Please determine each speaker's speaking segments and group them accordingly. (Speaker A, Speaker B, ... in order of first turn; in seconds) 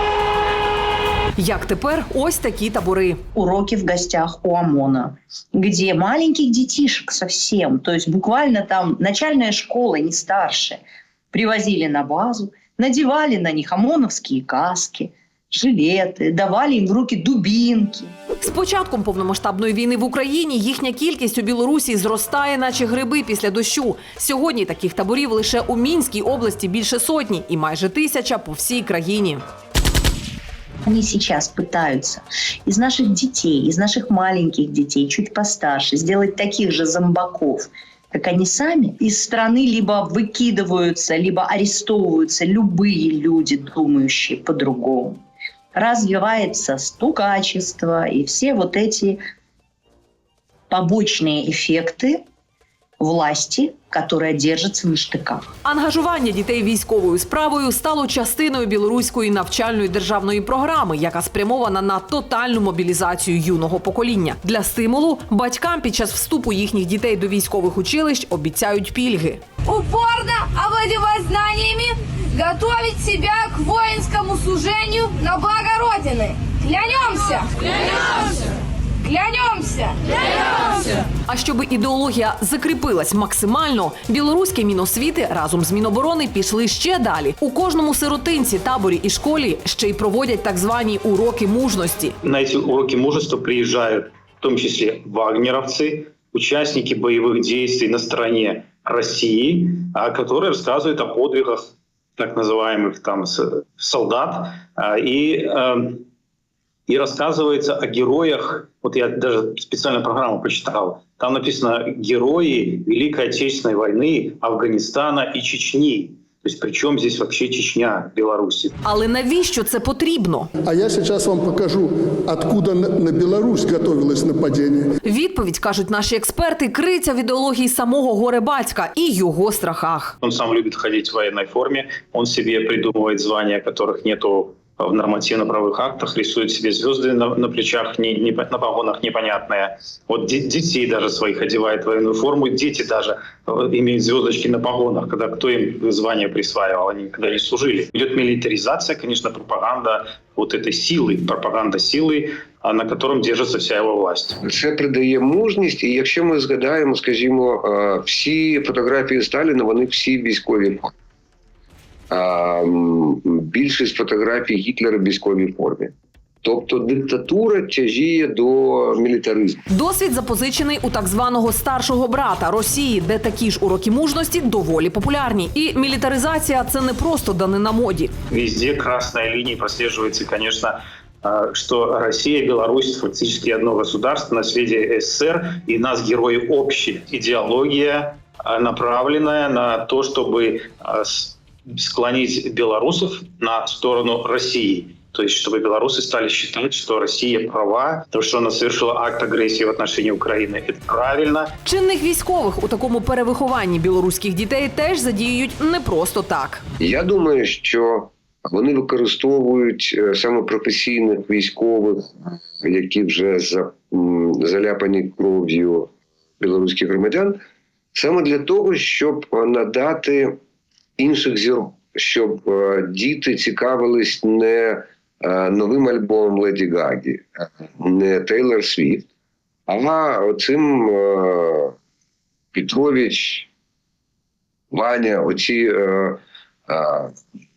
Speaker A: 1.4-3.2, 18.4-29.4, 55.6-69.4, 81.2-92.2, 118.8-120.5, 125.0-130.2, 169.7-178.1, 201.6-206.6
Speaker B: 3.4-10.8, 11.3-18.1, 30.9-45.2, 45.7-49.2, 50.7-52.2, 53.0-55.4
Speaker C: 69.7-78.4, 79.0-80.9
Speaker D: 92.2-106.0, 106.9-118.8, 130.2-154.4, 178.3-201.5
Speaker E: 120.6-124.9
Speaker F: 154.4-160.9, 162.1-169.6, 206.8-217.4, 217.9-220.4, 221.0-229.1, 229.7-231.7, 232.5-233.5, 234.7-237.1